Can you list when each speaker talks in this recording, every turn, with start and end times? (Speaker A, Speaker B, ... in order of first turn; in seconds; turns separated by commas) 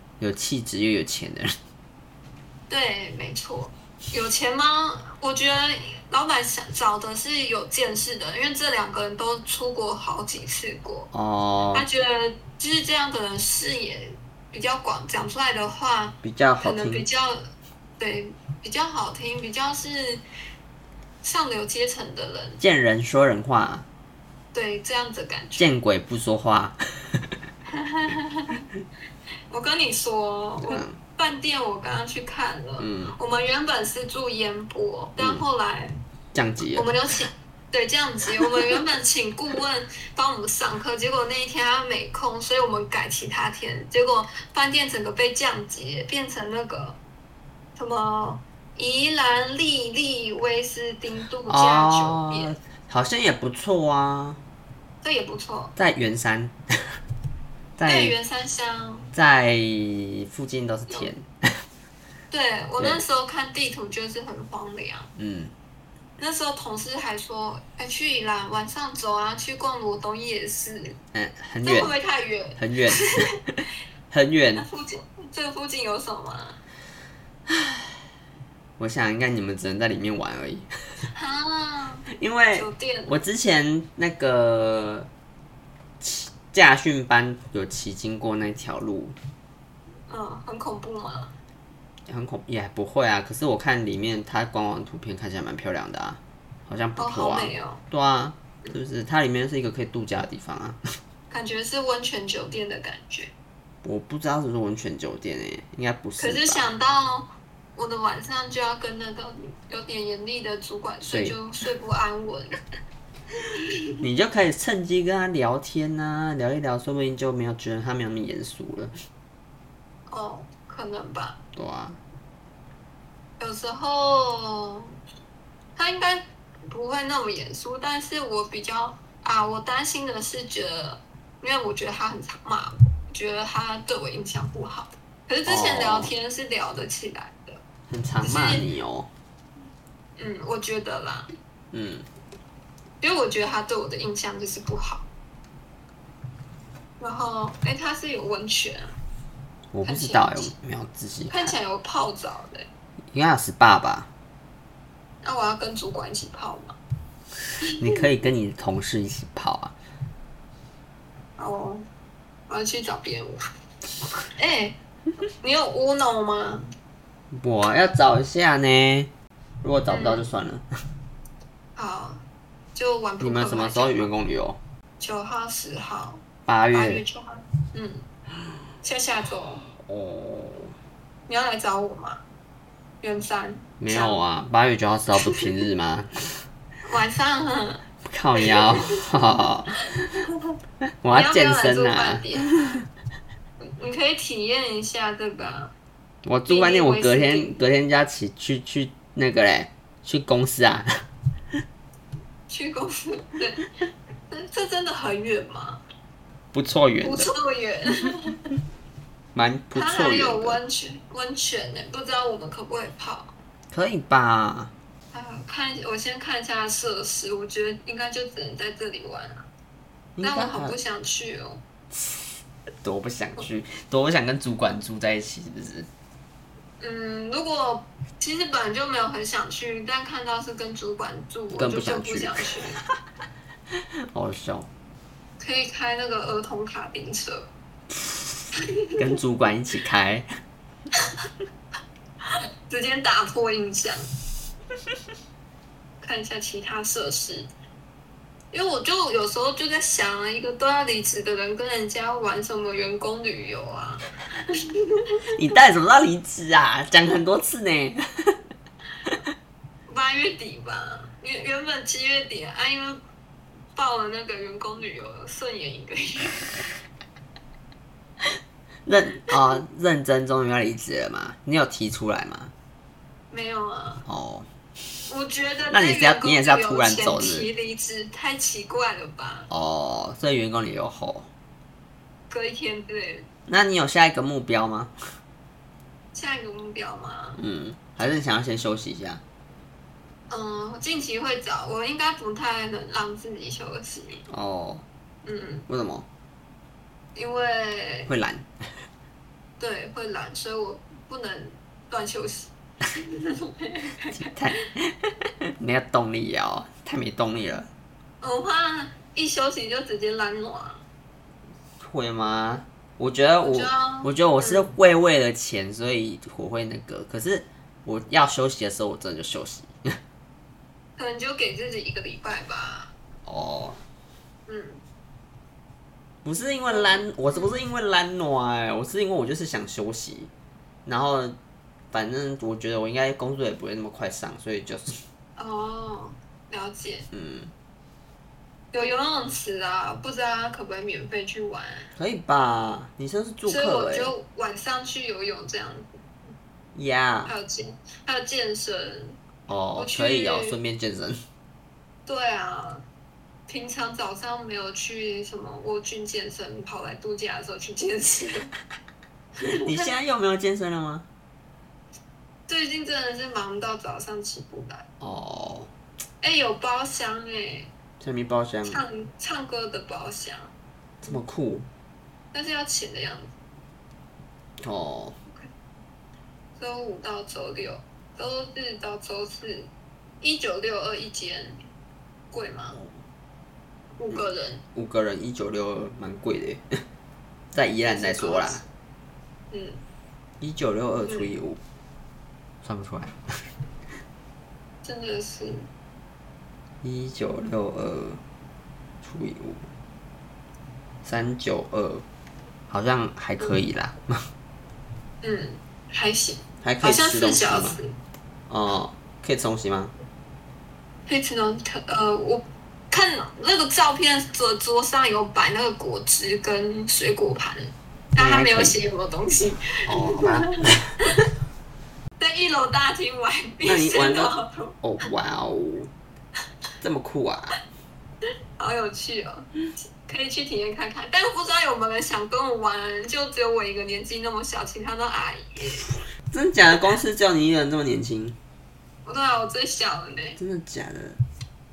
Speaker A: 0.2-1.5, Speaker B: 2.7-11.1, Speaker A: 11.1-11.9, Speaker B: 11.7-17.4, Speaker A: 16.2-17.1, Speaker B: 18.0-20.2, Speaker B: 21.2-22.6, Speaker A: 22.6-23.9, Speaker B: 24.5-25.7, Speaker A: 25.6-27.3, Speaker B: 27.7-28.6, Speaker B: 29.5-36.0, Speaker A: 30.6-31.0, Speaker A: 32.8-33.2, Speaker A: 35.2-35.5, Speaker A: 36.3-37.0, Speaker B: 36.7-47.0, Speaker B: 47.8-52.5, Speaker A: 51.5-54.4, Speaker B: 55.0-55.8, Speaker A: 55.8-56.5, Speaker A: 57.8-58.1, Speaker B: 57.9-59.1, Speaker A: 59.1-61.3, Speaker B: 62.3-65.1, Speaker A: 65.2-65.5, Speaker B: 66.2-71.0, Speaker A: 71.1-71.9, Speaker B: 71.6-73.3, Speaker A: 72.6-73.4, Speaker A: 74.1-74.7, Speaker B: 74.6-76.6, Speaker A: 77.5-78.0, Speaker A: 78.8-80.7, Speaker B: 81.1-83.2, Speaker A: 82.2-85.1, Speaker A: 86.0-89.2, Speaker B: 90.1-91.3, Speaker A: 92.1-100.8, Speaker B: 97.0-97.8, Speaker B: 101.3-103.3, Speaker A: 103.8-106.7, Speaker B: 106.2-112.5, Speaker A: 111.0-111.4, Speaker B: 113.6-114.0, Speaker A: 114.0-118.9, Speaker B: 120.1-121.4, Speaker A: 121.5-122.0, Speaker B: 123.4-124.9, Speaker B: 125.8-137.6, Speaker A: 135.5-136.1, Speaker A: 137.9-139.1, Speaker B: 138.2-138.7, Speaker B: 140.2-141.3, Speaker A: 141.7-142.1, Speaker B: 143.0-145.1, Speaker B: 147.0-148.9, Speaker A: 149.7-151.6, Speaker B: 149.8-150.5, Speaker B: 151.3-152.7, Speaker A: 153.1-154.1, Speaker B: 155.2-156.8, Speaker B: 157.6-158.0, Speaker A: 157.8-159.8, Speaker B: 161.4-161.8, Speaker B: 162.5-163.4, Speaker B: 164.4-164.8, Speaker B: 165.4-166.7, Speaker A: 167.3-169.1, Speaker A: 169.6-170.6, Speaker B: 169.9-170.3, Speaker B: 171.8-172.2, Speaker B: 172.8-174.1, Speaker A: 173.2-174.6, Speaker B: 175.0-178.1, Speaker A: 176.5-177.0, Speaker B: 178.8-179.7, Speaker A: 179.8-180.7, Speaker B: 181.3-182.2, Speaker B: 183.0-184.2, Speaker A: 183.8-186.1, Speaker B: 186.8-187.8, Speaker A: 188.1-189.8, Speaker B: 188.4-188.9, Speaker B: 190.2-190.5, Speaker A: 191.0-192.8, Speaker B: 191.1-192.8, Speaker B: 193.6-195.7, Speaker A: 196.2-200.9, Speaker B: 196.5-197.6, Speaker B: 202.5-203.6, Speaker B: 204.3-205.8, Speaker A: 206.5-207.3, Speaker B: 207.0-208.4, Speaker A: 209.3-210.6, Speaker B: 209.8-213.3, Speaker A: 213.7-214.7, Speaker B: 215.1-219.5, Speaker A: 220.2-220.8, Speaker B: 220.2-221.6, Speaker A: 221.9-222.3, Speaker A: 222.8-225.9, Speaker B: 226.8-232.8, Speaker A: 231.6-232.6, Speaker A: 234.1-234.7, Speaker B: 235.4-237.5, Speaker B: 238.6-238.9, Speaker A: 239.0-240.3, Speaker B: 242.2-244.1, Speaker B: 246.0-247.5, Speaker B: 248.5-255.2, Speaker A: 255.3-258.0, Speaker B: 259.9-263.0, Speaker B: 263.8-266.5, Speaker A: 268.9-272.5, Speaker B: 273.3-274.1, Speaker A: 274.1-274.5, Speaker B: 275.1-279.5, Speaker A: 275.7-277.5, Speaker A: 279.5-281.3, Speaker B: 282.3-283.3, Speaker A: 283.5-284.9, Speaker B: 286.1-287.4, Speaker A: 287.4-289.2, Speaker B: 290.3-294.2, Speaker A: 294.3-294.9, Speaker B: 295.2-295.7, Speaker A: 295.7-296.1, Speaker B: 297.1-298.1, Speaker A: 298.1-298.5, Speaker B: 299.6-304.3, Speaker A: 304.1-307.7, Speaker B: 308.2-310.8, Speaker A: 311.8-320.0, Speaker B: 313.4-314.7, Speaker B: 321.0-322.9, Speaker A: 323.3-323.8, Speaker B: 324.5-324.8, Speaker A: 326.2-330.3, Speaker B: 326.7-327.6, Speaker A: 330.9-331.4, Speaker A: 331.9-335.0, Speaker B: 335.4-337.1, Speaker A: 337.1-337.5, Speaker B: 338.7-341.9, Speaker A: 342.0-344.1, Speaker B: 343.5-346.3, Speaker A: 346.8-347.3, Speaker B: 347.3-349.2, Speaker A: 349.5-351.2, Speaker B: 349.8-350.6, Speaker B: 352.1-352.9, Speaker B: 353.5-358.5, Speaker B: 359.4-359.9, Speaker A: 359.4-361.1, Speaker B: 362.5-364.9, Speaker A: 365.0-365.7, Speaker B: 366.2-367.7, Speaker A: 368.0-368.9, Speaker B: 368.7-370.5, Speaker A: 371.0-371.7, Speaker B: 372.3-373.3, Speaker A: 374.6-375.2, Speaker B: 376.6-379.7, Speaker B: 380.2-381.6, Speaker B: 382.3-382.8, Speaker B: 384.0-384.6, Speaker A: 384.1-386.6, Speaker A: 387.5-388.6, Speaker B: 387.8-388.7, Speaker B: 389.5-389.8, Speaker A: 390.4-391.6, Speaker A: 392.6-393.2, Speaker B: 394.8-395.7, Speaker A: 396.8-398.2, Speaker A: 399.0-399.7, Speaker A: 401.1-402.1, Speaker A: 402.7-404.2, Speaker B: 405.2-408.0, Speaker A: 406.6-407.8, Speaker A: 408.5-409.9, Speaker B: 411.1-421.2, Speaker A: 418.2-418.8, Speaker A: 419.9-421.0, Speaker B: 422.2-424.8, Speaker A: 423.6-425.9, Speaker A: 426.8-427.6, Speaker B: 428.6-435.9, Speaker A: 436.3-438.4, Speaker B: 439.1-440.4, Speaker A: 440.4-441.2